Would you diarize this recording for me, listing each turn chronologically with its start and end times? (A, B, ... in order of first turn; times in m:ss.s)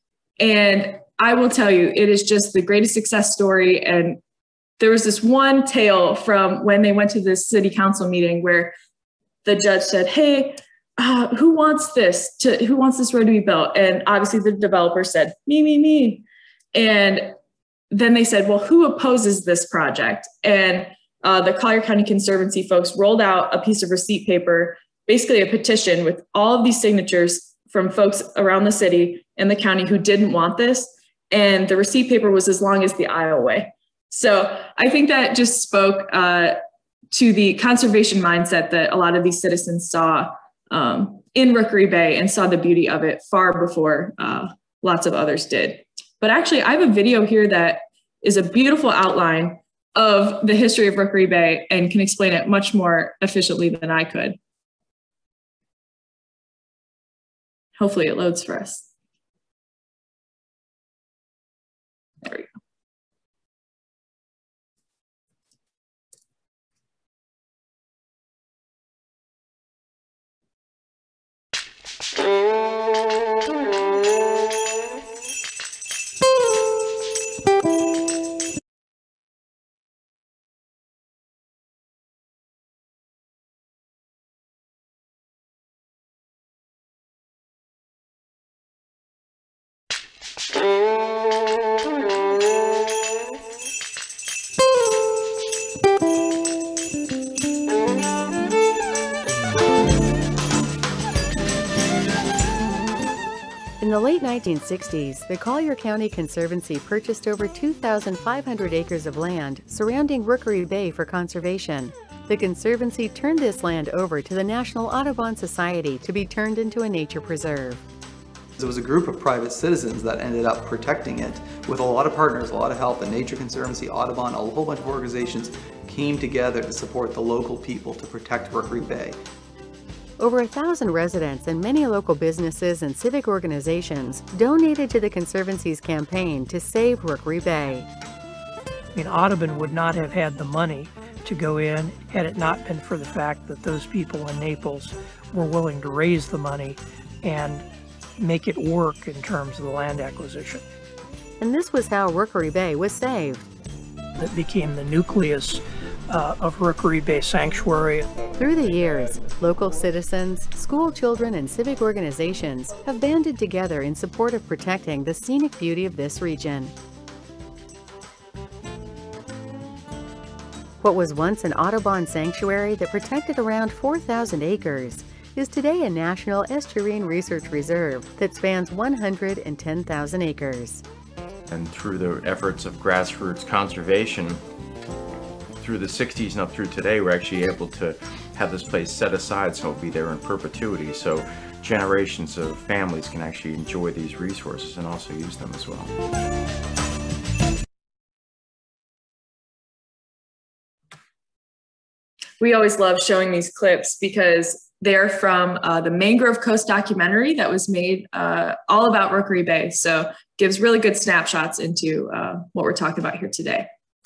0:00.4-0:04.2 A
0:04.8-0:08.7 A
0:09.4-0:17.3 A
0:17.9-0:36.6 A
0:37.1-0:54.4 A
0:57.8-0:58.8 A
1:02.2-1:02.5 A
1:43.8-1:57.8 B
1:58.6-2:09.2 C
2:10.2-2:17.9 B
2:18.9-2:27.6 D
2:28.2-2:30.6 D
2:31.4-2:33.4 B
2:34.2-2:38.1 D
2:38.4-2:46.7 B
2:50.8-3:00.8 B
3:01.5-3:04.4 E
3:05.6-3:15.9 E
3:22.4-3:33.7 A